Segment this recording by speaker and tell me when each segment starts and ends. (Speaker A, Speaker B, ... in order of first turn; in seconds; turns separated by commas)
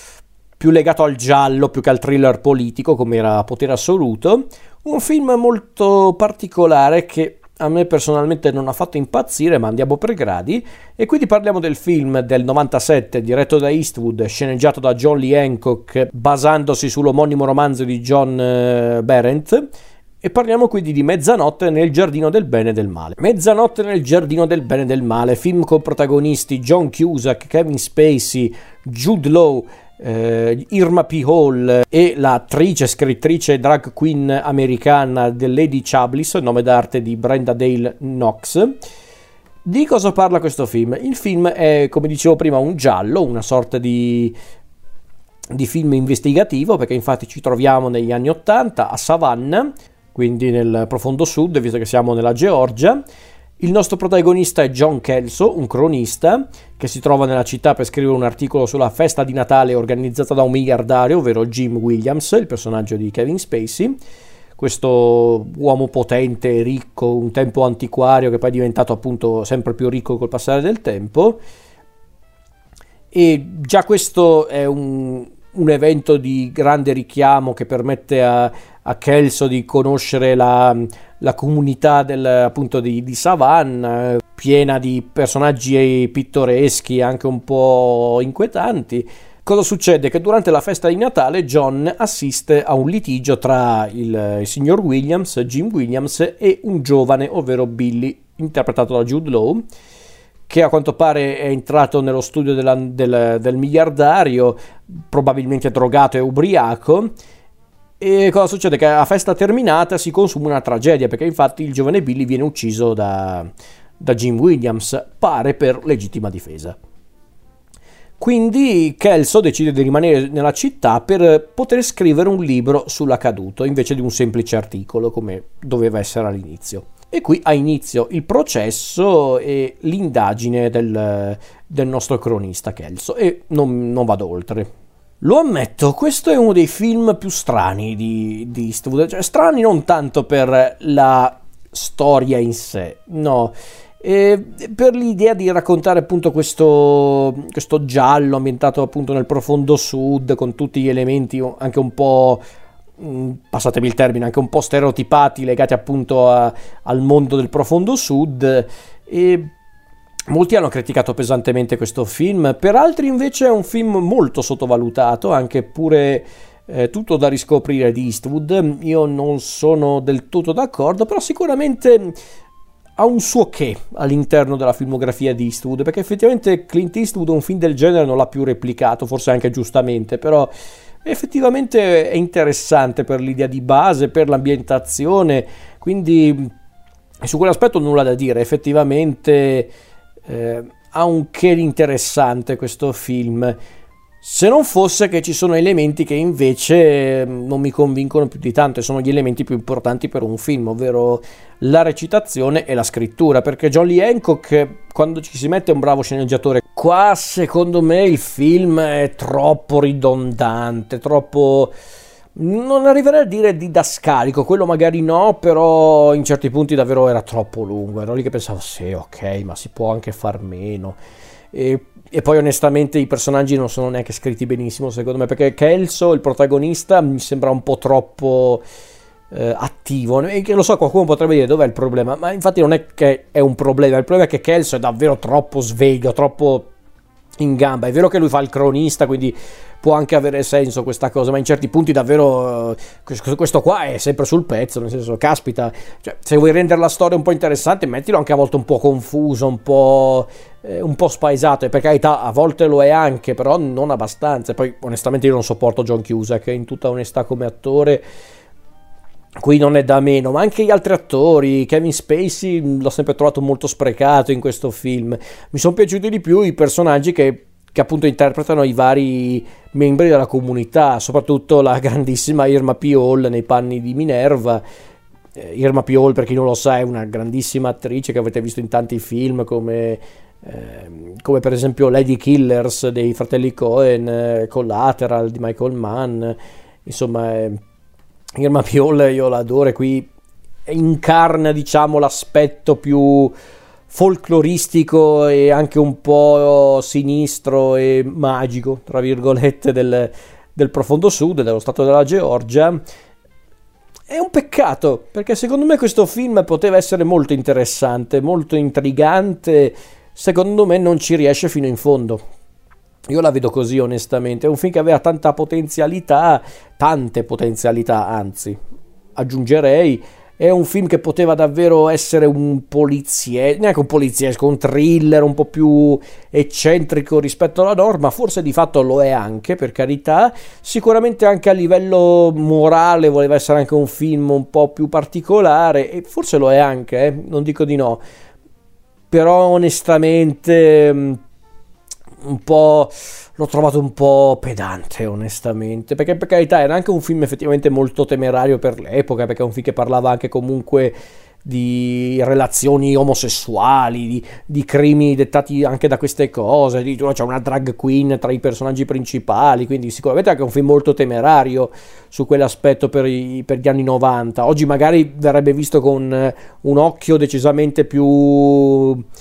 Speaker A: 0.6-19.7, Speaker A: 20.2-38.8, Speaker A: 39.6-44.3, Speaker A: 45.5-53.0, Speaker A: 53.6-64.0, Speaker A: 64.6-71.4, Speaker A: 73.1-99.6, Speaker A: 100.5-107.1, Speaker A: 108.0-116.8, Speaker A: 118.2-134.7, Speaker A: 135.2-152.4, Speaker A: 153.0-159.5, Speaker A: 160.3-172.1, Speaker A: 173.0-180.5, Speaker A: 181.0-186.5, Speaker A: 187.2-189.7, Speaker A: 190.3-193.6, Speaker A: 194.2-211.7, Speaker A: 212.3-221.0, Speaker A: 221.5-228.6, Speaker A: 229.3-236.7, Speaker A: 237.4-258.0, Speaker A: 259.4-274.6, Speaker A: 275.4-287.6, Speaker A: 288.4-290.1, Speaker A: 290.6-293.3, Speaker A: 293.9-302.8, Speaker A: 304.1-312.2, Speaker A: 313.1-318.6, Speaker A: 319.1-338.0, Speaker A: 339.1-341.2, Speaker A: 342.2-369.0